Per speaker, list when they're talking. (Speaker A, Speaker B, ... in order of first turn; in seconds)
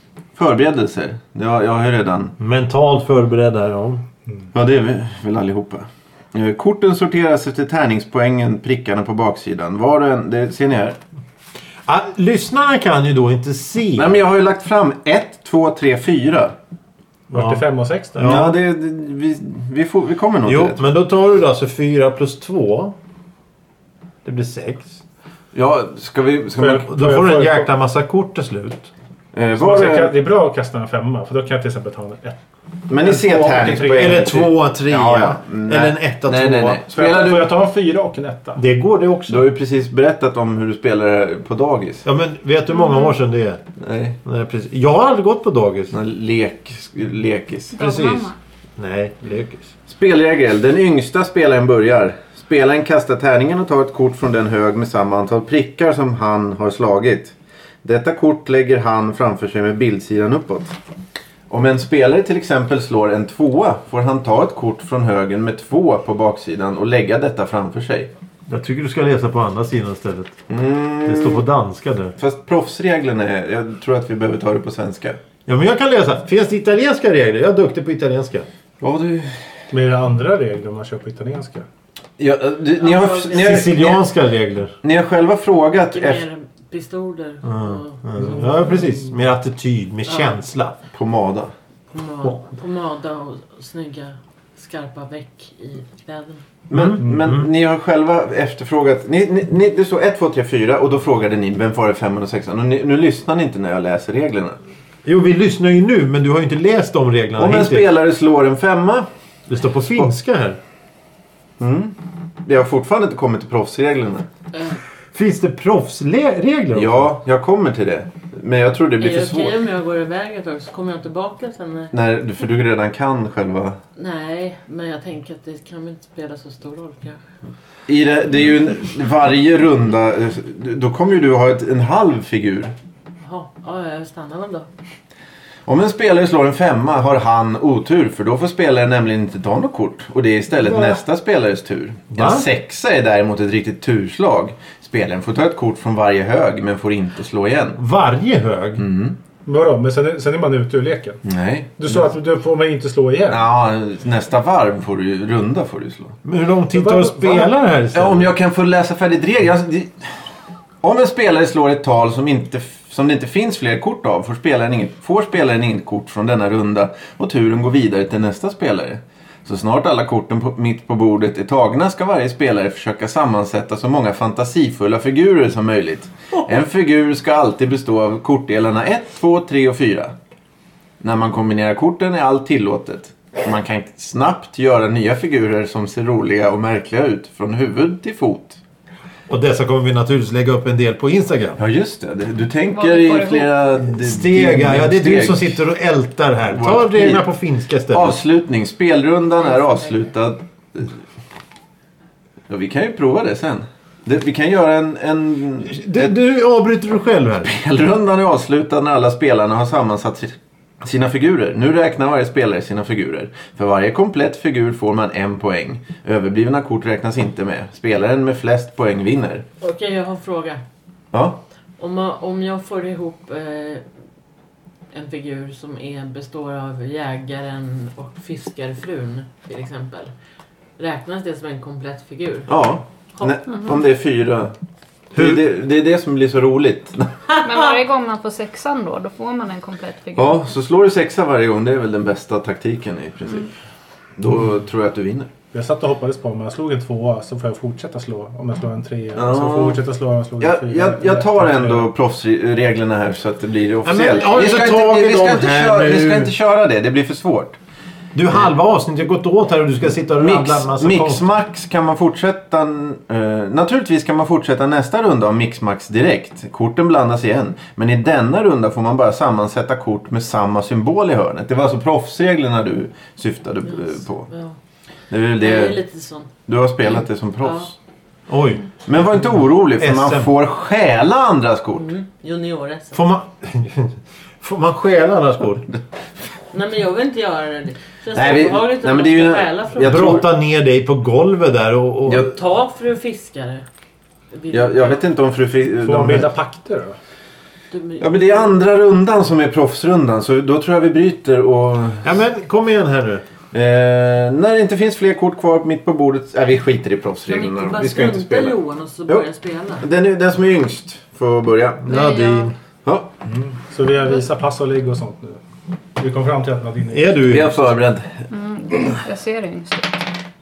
Speaker A: 0.3-2.3, 4.5-11.0, 13.9-16.5, 18.2-20.8, 25.5-26.9, 29.3-30.1, 32.9-37.5, 39.3-42.0, 43.8-44.2, 45.9-47.9, 49.9-60.8, 61.5-68.1, 70.5-71.4, 72.2-75.2, 78.8-79.3, 82.2-84.0, 84.8-86.2, 90.9-91.5, 96.7-104.6, 107.3-109.1, 111.6-114.2, 116.7-119.6, 121.9-123.8, 127.9-132.7, 135.7-147.8, 148.8-149.2, 151.2-152.0, 153.3-156.2, 157.9-159.9, 160.8-180.1, 181.0-188.6, 191.6-195.6, 196.5-197.2, 197.9-201.0, 202.5-206.1, 207.4-219.4, 221.1-221.4, 232.5-234.5, 235.1-237.1, 240.2-243.5, 244.2-245.3, 249.1-249.8, 250.4-257.6, 260.2-274.3, 275.1-275.8, 276.4-277.7, 278.9-281.9, 288.1-290.3, 294.5-296.3, 298.0-302.1, 303.5-309.2, 309.8-311.9, 312.8-313.1, 317.3-318.2
Speaker B: 2.4-4.0, 11.9-14.2, 17.3-18.6, 20.4-22.9, 24.2-25.0, 26.8-28.9, 33.9-36.8, 38.5-39.5, 42.0-43.6, 44.2-45.9, 48.8-49.5, 68.5-70.4, 71.0-72.1, 75.5-78.5, 83.3-84.7, 87.4-90.8, 96.7-97.5, 105.0-107.9, 109.5-110.6, 115.1-117.1, 142.1-142.5, 147.8-148.8, 156.2-158.3, 189.3-191.6, 193.8-198.2, 205.7-207.5, 253.8-256.3, 258.1-261.3, 278.3-278.6, 279.8-280.3, 282.9-285.7, 289.8-292.3, 302.0-303.2, 311.8-312.5, 316.9-317.6
Speaker C: 17.3-18.3, 26.6-27.7, 29.5-32.4, 32.9-34.5, 36.9-38.6, 47.9-48.3, 79.7-81.7, 149.4-151.2, 151.8-153.4, 156.7-157.5, 245.5-251.9, 295.8-297.0, 313.2-315.4, 316.0-317.4
Speaker D: 42.7-43.1, 47.7-48.3, 192.7-193.5, 237.4-240.4, 311.9-312.5, 318.3-320.0
Speaker E: 82.8-83.8, 85.9-88.7, 90.0-90.4, 91.9-96.4, 114.5-114.8, 119.0-121.9, 124.0-127.2, 133.2-134.7, 199.4-200.1, 219.6-220.6, 221.8-223.8, 224.9-230.1, 230.8-232.5, 233.1-233.4, 237.4-237.7, 273.6-274.6, 275.4-276.3, 277.4-277.7, 281.7-283.0, 286.5-290.1, 292.1-293.6, 294.3-295.1, 297.7-298.6, 307.3-309.9